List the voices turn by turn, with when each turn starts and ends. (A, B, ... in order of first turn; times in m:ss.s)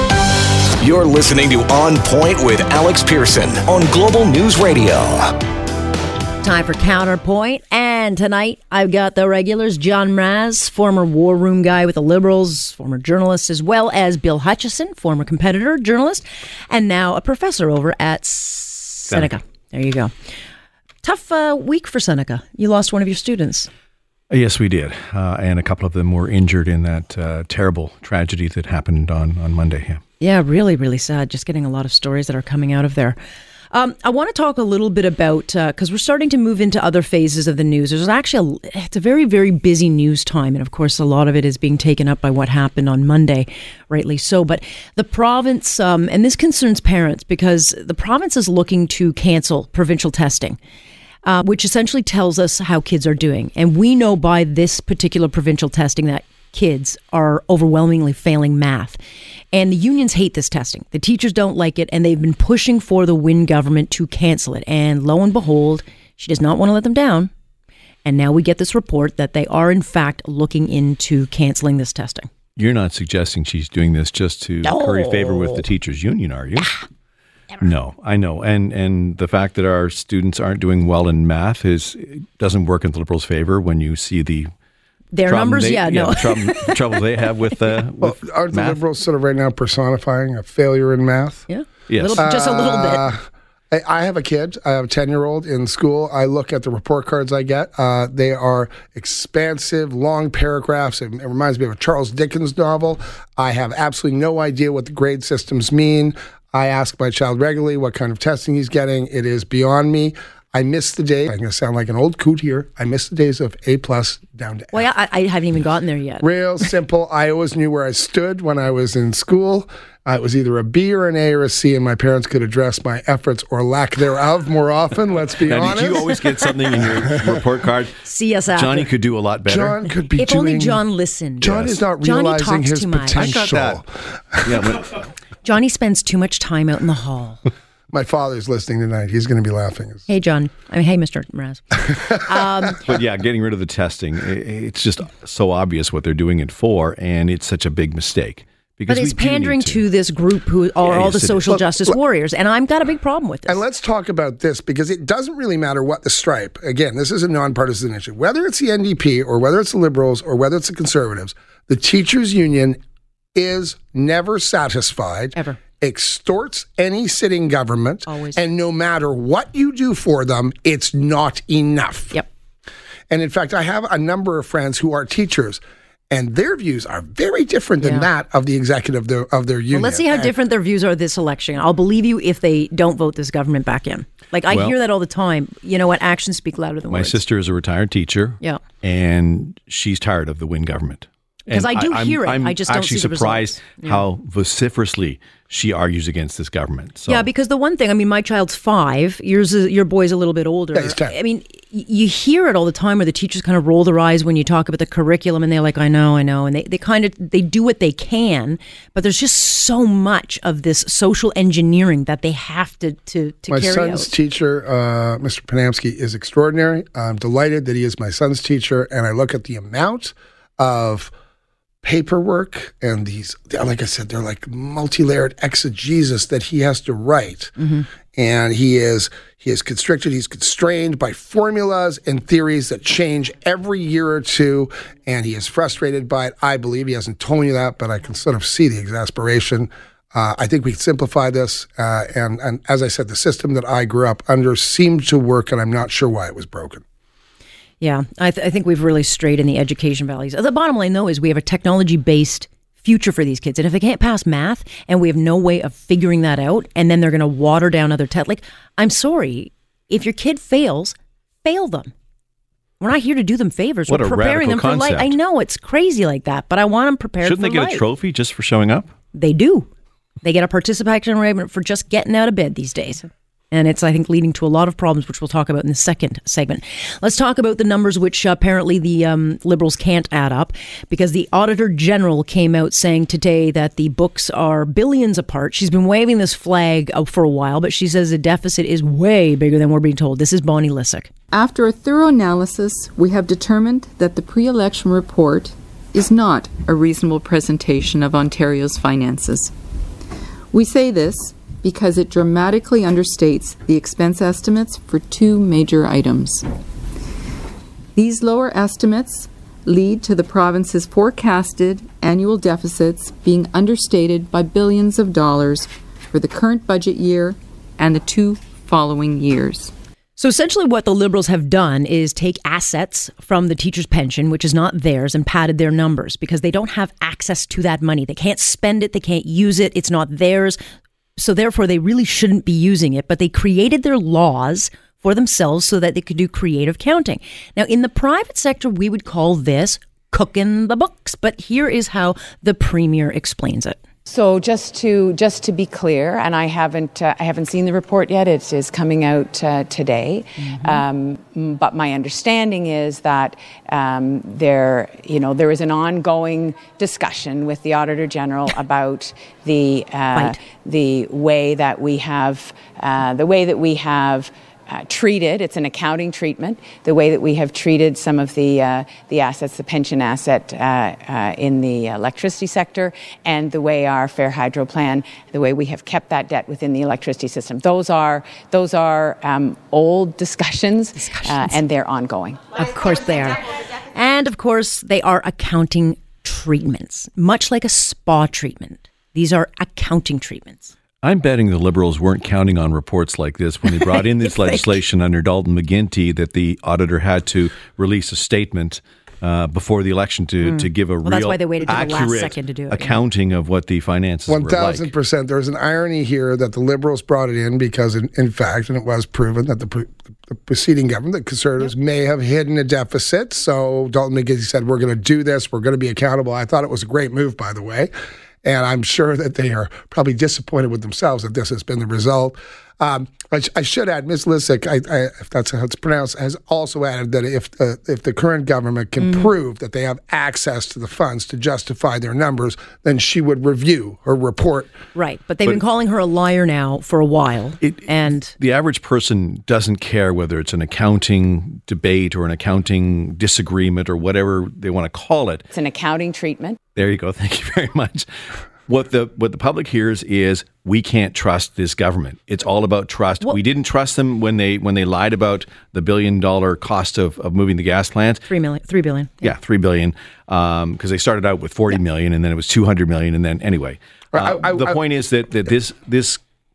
0:00.8-0:05.3 A
0:06.4-0:20.1 B
0:19.1-0:19.3 C
0:21.0-0:23.7 B
0:24.3-0:30.0 C
0:30.2-0:33.2 B
0:33.7-0:50.6 B
0:51.2-0:59.0 B
0:59.5-1:07.3 B
1:08.0-1:12.3 B
1:12.6-1:16.8 C
1:14.6-1:15.6 B
1:17.6-1:24.5 C
1:25.1-1:27.0 B
1:25.2-1:28.8 C
1:28.0-1:31.4 D
1:31.5-1:33.1 B
1:31.9-1:32.2 C
1:32.2-1:54.8 D
1:54.7-1:56.3 B
1:56.2-2:06.0 D
2:05.4-2:07.9 C
2:05.9-2:06.5 B
2:08.0-2:08.9 B
2:08.5-2:09.8 C
2:09.4-2:10.8 D
2:10.2-2:13.3 B
2:11.4-2:14.8 D
2:11.4-2:11.8 C
2:13.1-2:13.8 C
2:14.4-2:15.0 C
2:15.4-2:17.4 B
2:17.9-2:20.1 D
2:20.1-2:22.8 B
2:22.9-2:29.8 C
2:28.9-2:33.6 B
2:30.8-2:31.6 C
2:33.5-2:42.8 D
2:43.3-2:52.2 D
2:48.1-2:48.4 B
2:53.1-3:00.3 D
2:57.8-2:58.1 B
2:59.7-3:07.2 B
3:04.5-3:04.8 C
3:06.9-3:17.2 C
3:11.5-3:14.0 B
3:17.1-3:34.1 B
3:20.7-3:21.2 D
3:33.5-3:41.1 D
3:41.8-4:06.8 D
4:07.8-4:21.9 B
4:22.8-4:27.8 B
4:23.9-4:25.2 C
4:27.2-4:28.9 C
4:29.1-4:29.7 B
4:30.2-4:51.1 B
4:51.3-4:59.5 E
5:00.5-5:06.4 E
5:08.0-5:19.7 E
5:20.2-5:30.6 B
5:31.2-5:43.8 B
5:44.1-6:22.6 F
5:50.4-5:50.8 B
6:21.0-6:21.6 B
6:22.5-6:30.7 B
6:31.0-6:44.9 C
6:33.6-6:34.7 B
6:40.4-6:43.0 B
6:44.3-6:57.9 D
6:58.4-7:14.7 D
7:14.9-7:18.3 B
7:17.6-7:25.4 C
7:25.5-7:26.6 F
7:26.7-7:28.1 C
7:28.7-7:38.3 C
7:38.3-7:39.3 B
7:39.2-7:46.2 C
7:44.1-7:44.8 D